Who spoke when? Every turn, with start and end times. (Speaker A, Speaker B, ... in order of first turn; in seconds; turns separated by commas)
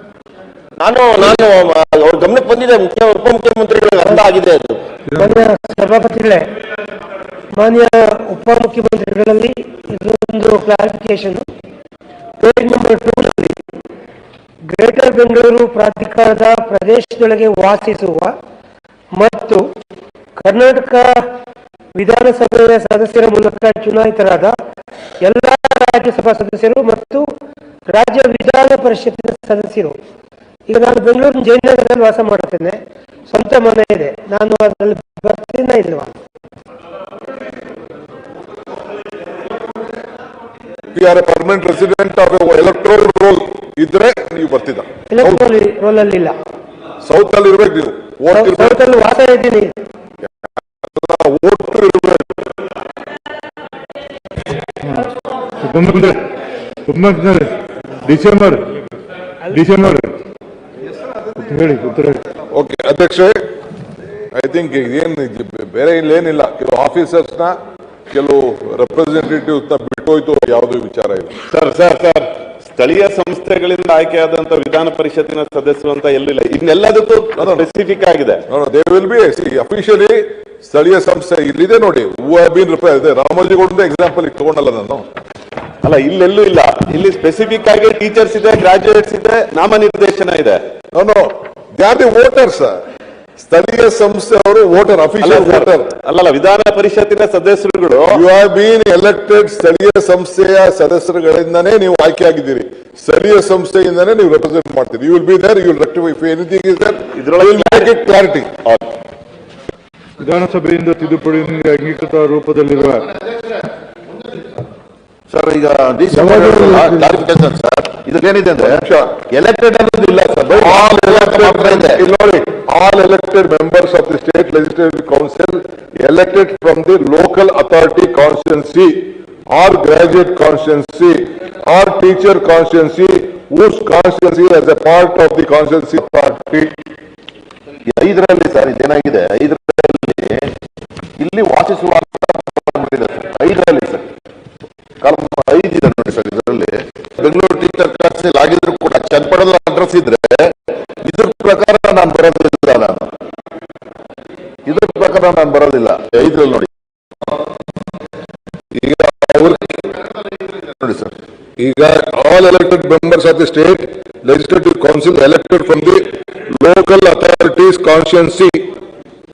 Speaker A: 4.0-4.3, Speaker B: 5.1-5.4, Speaker A: 5.2-6.4, Speaker A: 7.6-11.4, Speaker A: 12.4-13.6, Speaker A: 14.7-18.3, Speaker A: 19.2-19.6, Speaker A: 20.4-21.1, Speaker A: 22.0-24.5, Speaker A: 25.2-27.2, Speaker A: 27.9-29.9, Speaker A: 30.7-32.8, Speaker A: 33.3-36.1, Speaker C: 40.9-45.5, Speaker A: 45.1-46.3, Speaker C: 47.0-48.8, Speaker A: 48.3-49.7, Speaker C: 50.8-52.4, Speaker B: 54.8-55.1, Speaker B: 55.6-56.2, Speaker B: 56.9-57.5, Speaker B: 58.0-58.6, Speaker B: 59.5-60.2, Speaker B: 61.4-62.2, Speaker C: 62.5-63.4, Speaker C: 64.3-67.6, Speaker C: 68.1-71.3, Speaker D: 71.5-78.4, Speaker C: 77.4-77.7, Speaker C: 78.5-85.0, Speaker D: 85.8-90.6, Speaker C: 90.9-92.8, Speaker C: 93.4-95.9, Speaker D: 95.2-98.2, Speaker C: 98.1-108.6, Speaker D: 107.2-107.9, Speaker B: 110.2-113.1, Speaker E: 115.3-122.0, Speaker B: 116.1-117.2, Speaker C: 118.6-119.2, Speaker C: 120.5-136.7, Speaker E: 137.9-140.5, Speaker E: 141.2-144.1, Speaker E: 145.0-153.1, Speaker E: 154.7-156.7, Speaker C: 158.7-159.9, Speaker E: 159.9-161.2, Speaker C: 161.6-168.6